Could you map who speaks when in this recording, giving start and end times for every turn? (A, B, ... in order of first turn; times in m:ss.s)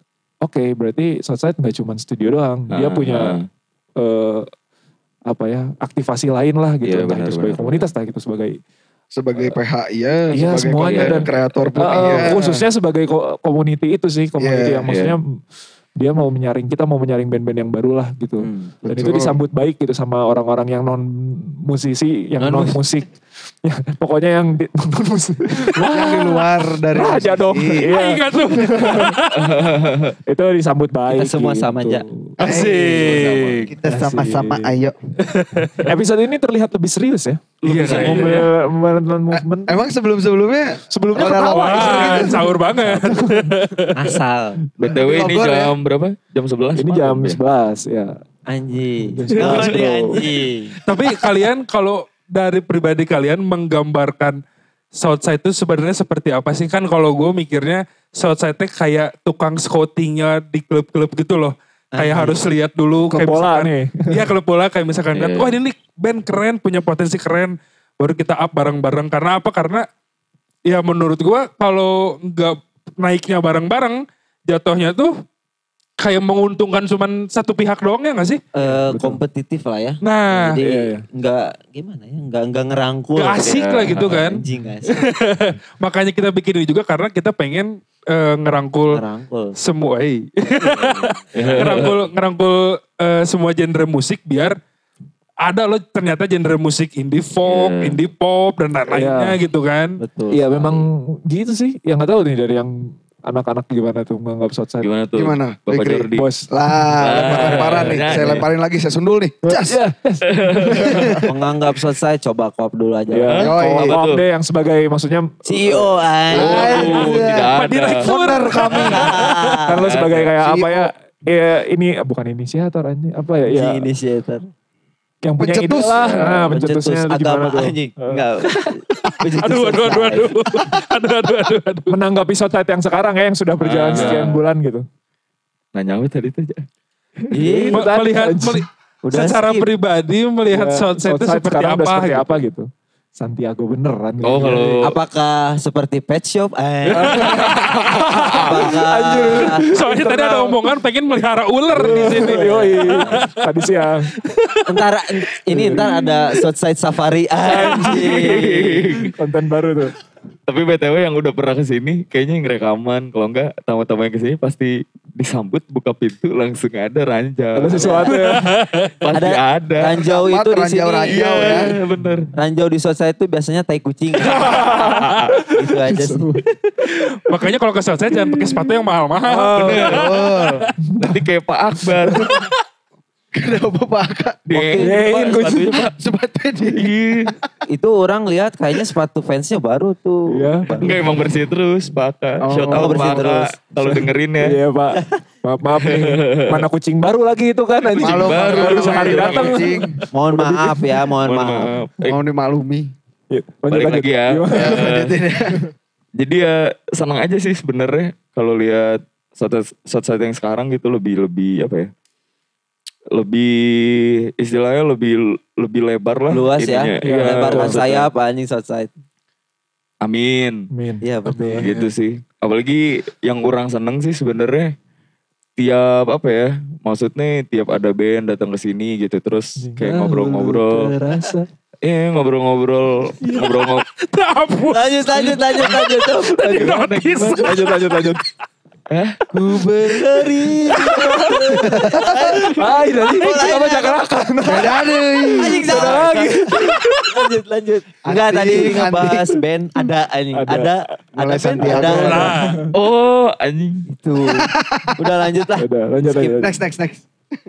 0:00.4-0:03.4 A
0:02.7-0:03.4 B
0:04.0-0:04.5 A
0:05.3-0:08.6 A
0:06.8-0:07.9 B
0:09.1-0:12.6 C
0:10.3-0:15.2 A
0:10.8-0:11.3 B
0:11.9-0:12.2 B
0:14.4-0:14.9 C
0:14.9-0:15.2 B
0:16.0-0:23.1 A
0:18.4-0:18.7 D
0:18.8-0:19.4 C
0:22.4-0:22.8 D
0:23.6-0:29.2 A
0:25.7-0:27.9 C
0:27.9-0:29.8 E
0:29.3-0:30.1 B
0:30.3-0:32.6 A
0:31.1-0:32.0 D
0:32.4-0:33.7 E
0:32.4-0:34.9 C
0:33.8-0:34.8 A
0:35.2-0:35.9 E
0:35.8-0:39.8 A
0:37.6-0:38.5 E
0:37.8-0:38.2 B
0:38.0-0:38.4 D
0:39.3-0:42.6 C
0:40.9-0:43.6 A
0:41.5-0:44.1 E
0:43.9-0:44.6 D
0:44.8-0:47.4 B
0:44.8-0:45.7 C
0:46.8-0:48.2 A
0:48.5-0:50.8 D
0:49.0-0:50.3 A
0:50.8-0:54.4 E
0:54.9-1:09.8 E
1:01.9-1:02.4 D
1:03.1-1:04.3 A
1:05.1-1:05.6 B
1:10.6-1:15.1 E
1:16.0-1:18.4 E
1:18.5-1:25.1 D
1:18.6-1:19.2 A
1:20.0-1:20.6 E
1:20.6-1:21.0 A
1:23.2-1:29.0 E
1:23.4-1:24.1 B
1:28.9-1:29.6 D
1:29.6-1:34.6 E
1:30.5-1:31.9 D
1:31.3-1:32.0 B
1:35.4-1:40.0 E
1:37.4-1:38.0 B
1:38.9-1:39.4 A
1:40.0-1:40.9 D
1:40.3-1:44.9 A
1:44.8-1:46.2 B
1:45.1-1:49.8 C
1:46.1-1:46.5 A
1:47.0-1:48.5 B
1:47.2-1:47.8 E
1:49.4-1:51.2 A
1:50.2-1:51.2 B
1:50.8-1:51.3 C
1:51.2-1:53.4 D
1:53.1-1:57.1 A
1:53.2-1:54.2 B
1:53.4-1:54.0 C
1:55.4-1:57.1 D
1:56.3-1:59.1 C
1:56.3-1:58.1 B
1:57.5-1:59.6 E
1:58.7-1:59.8 D
1:59.6-2:03.8 A
1:59.8-2:00.3 B
2:00.4-2:00.9 C
2:03.4-2:04.5 D
2:05.2-2:08.2 A
2:05.4-2:06.3 C
2:05.9-2:06.5 B
2:06.5-2:10.7 D
2:08.9-2:11.9 E
2:11.9-2:14.8 A
2:13.6-2:14.4 B
2:13.9-2:14.3 E
2:15.7-2:16.6 B
2:17.3-2:17.9 D
2:17.4-2:18.6 A
2:17.7-2:22.4 E
2:19.0-2:19.7 D
2:20.5-2:24.9 A
2:24.2-2:24.9 B
2:24.8-2:27.4 D
2:26.9-2:28.1 E
2:26.9-2:30.6 A
2:27.2-2:28.6 B
2:28.3-2:29.6 D
2:29.4-2:33.4 E
2:31.7-2:34.1 A
2:31.8-2:33.2 D
2:34.2-2:34.8 E
2:34.6-2:38.8 D
2:35.5-2:35.9 A
2:35.8-2:36.1 E
2:37.5-2:39.9 A
2:38.0-2:39.1 B
2:40.5-2:48.0 B
2:47.5-2:48.6 A
2:47.8-2:48.1 D
2:48.1-2:49.0 E
2:48.8-2:50.0 B
2:49.1-2:51.6 D
2:50.0-2:51.7 C
2:51.1-2:52.3 B
2:52.0-2:52.3 A
2:52.3-2:56.3 D
2:54.2-2:57.4 A
2:55.0-2:55.3 B
2:57.3-3:00.7 E
2:59.2-2:59.9 A
2:59.5-3:00.1 B
2:59.8-3:00.7 C
3:00.8-3:01.2 A
3:01.0-3:02.4 B
3:02.0-3:02.4 A
3:03.3-3:04.4 C
3:04.5-3:05.9 B
3:04.5-3:05.1 D
3:04.7-3:05.8 A
3:05.8-3:07.3 C
3:06.7-3:07.3 B
3:07.7-3:11.0 D
3:10.3-3:11.1 A
3:10.8-3:14.6 B
3:12.4-3:13.3 C
3:12.7-3:13.6 D
3:13.8-3:21.0 A
3:15.8-3:16.6 B
3:17.9-3:19.8 B
3:18.0-3:19.9 C
3:20.1-3:21.7 D
3:21.2-3:22.2 B
3:22.0-3:22.9 C
3:23.3-3:25.0 A
3:23.7-3:25.2 B
3:24.5-3:25.6 C
3:26.2-3:31.9 B
3:33.1-3:38.1 B
3:36.3-3:38.9 D
3:37.0-3:37.8 A
3:40.0-3:40.7 B
3:40.7-3:41.7 A
3:41.0-3:41.7 D
3:41.6-3:44.7 B
3:45.6-3:50.9 B
3:49.6-3:51.5 A
3:51.8-3:53.8 B
3:54.0-3:57.7 E
3:54.7-3:56.8 D
3:56.6-3:57.6 B
3:57.2-3:58.2 A
3:58.9-3:59.2 B
3:59.3-4:04.0 D
4:00.7-4:07.2 A
4:01.6-4:02.3 C
4:04.4-4:06.1 C
4:05.4-4:12.3 D
4:08.0-4:09.3 C
4:10.3-4:10.9 A
4:11.2-4:12.4 C
4:11.6-4:12.7 A
4:11.9-4:12.6 E
4:12.7-4:13.8 B
4:13.9-4:16.3 D
4:14.3-4:15.0 C
4:15.6-4:16.5 A
4:16.2-4:17.0 C